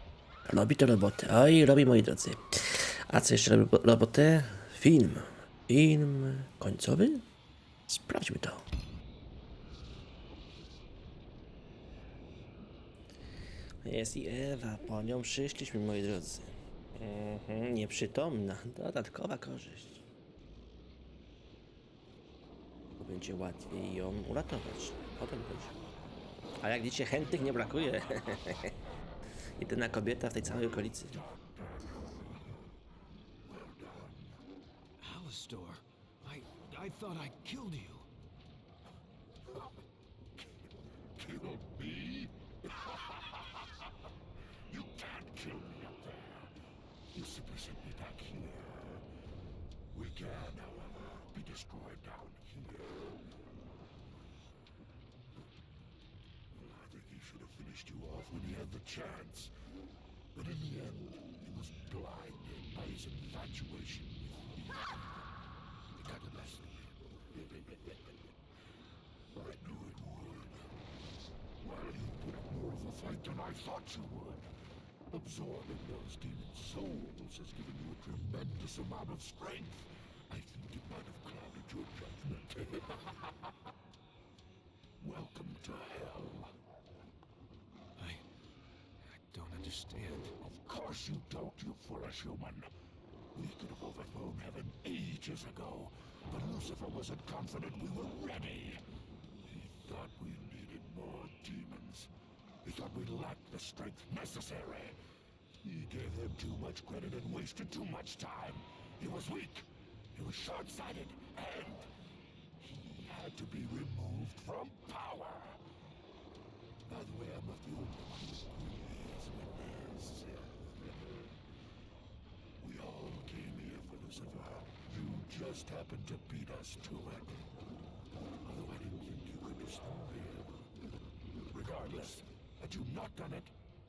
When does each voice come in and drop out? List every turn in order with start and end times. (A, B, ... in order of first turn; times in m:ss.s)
0:00.4-0:07.2 A
0:07.9-0:08.6 A
0:13.8-0:20.0 A
0:23.0-0:25.7 A
0:26.6-0:28.8 A
0:29.6-0:31.2 A
0:31.2-0:31.9 B
0:33.4-0:34.3 B
0:35.0-0:38.0 C
0:41.2-0:42.4 B
0:44.7-0:46.5 B
0:47.1-0:49.1 B
0:49.9-0:53.1 B
0:56.5-0:59.5 B
1:00.3-1:05.1 B
1:05.9-1:08.1 B
1:09.3-1:10.7 B
1:11.6-1:14.5 B
1:15.1-1:23.0 B
1:25.0-1:26.5 B
1:28.0-1:28.2 C
1:29.2-1:30.3 C
1:30.4-1:32.7 B
1:33.3-1:38.8 B
1:39.4-1:42.1 B
1:42.6-1:45.0 B
1:45.6-1:51.9 B
1:52.6-1:55.6 B
1:56.8-2:00.7 B
2:02.6-2:07.5 B
2:08.4-2:10.6 B
2:11.4-2:13.5 B